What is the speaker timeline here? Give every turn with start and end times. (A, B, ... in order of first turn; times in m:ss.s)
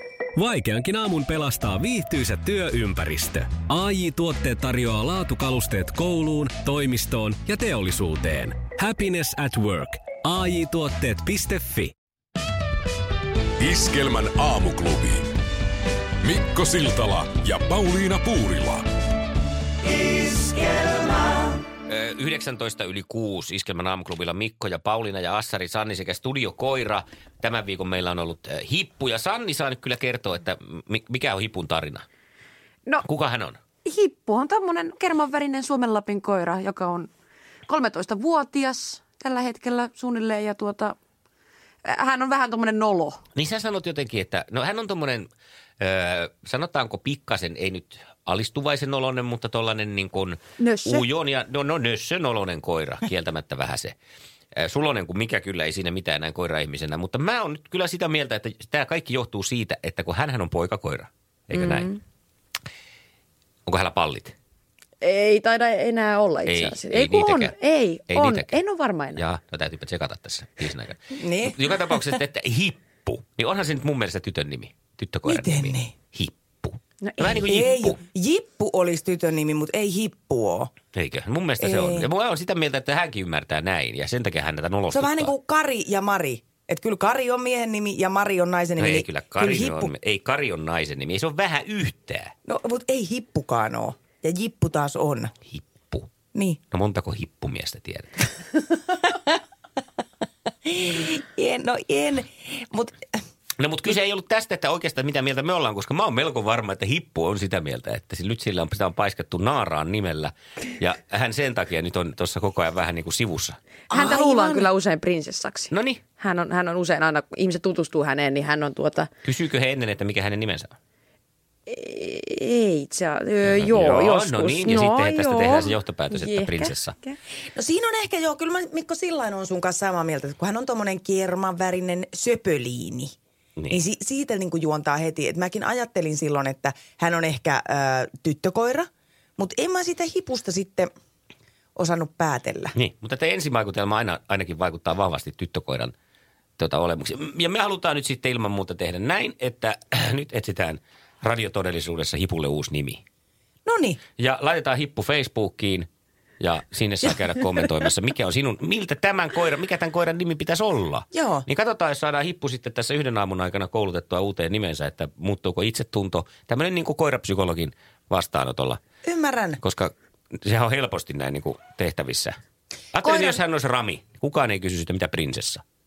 0:00.3-0:11.9 A
0:13.6-0:15.3 B
0:16.2-0:18.8 B
0:20.4-0:20.7 C
0:21.8-0:32.0 C
0:33.0-0:33.6 C
0:33.8-0:37.1 D
0:37.7-0:41.0 D
0:41.8-0:43.2 D
0:43.3-0:45.3 C
0:45.8-0:53.9 C
0:50.6-0:51.0 D
0:54.6-1:02.0 C
1:01.5-1:01.9 D
1:03.6-1:04.3 C
1:05.0-1:09.2 D
1:06.5-1:07.6 C
1:08.1-1:08.6 C
1:09.1-1:18.0 C
1:11.2-1:11.6 E
1:15.2-1:15.9 E
1:17.0-1:17.4 D
1:17.4-1:20.7 E
1:20.9-1:25.3 C
1:21.6-1:22.1 E
1:24.9-1:29.9 E
1:28.8-1:32.3 C
1:32.4-1:35.3 E
1:35.5-1:36.1 C
1:36.3-1:36.6 E
1:36.7-1:38.2 C
1:40.6-1:43.0 E
1:43.6-1:53.6 C
1:53.9-1:54.7 E
1:53.9-1:59.1 D
1:55.7-1:56.0 C
1:59.2-2:00.7 C
2:01.7-2:07.2 D
2:03.4-2:06.9 C
2:07.5-2:13.1 E
2:13.7-2:20.9 E
2:21.8-2:22.7 E
2:22.8-2:25.9 C
2:26.6-2:33.0 C
2:33.6-2:34.0 E
2:34.2-2:35.9 C
2:36.4-2:48.8 C
2:41.1-2:41.4 E
2:49.0-2:49.6 E
2:49.6-2:52.4 C
2:52.9-2:55.6 C
2:53.0-2:53.4 E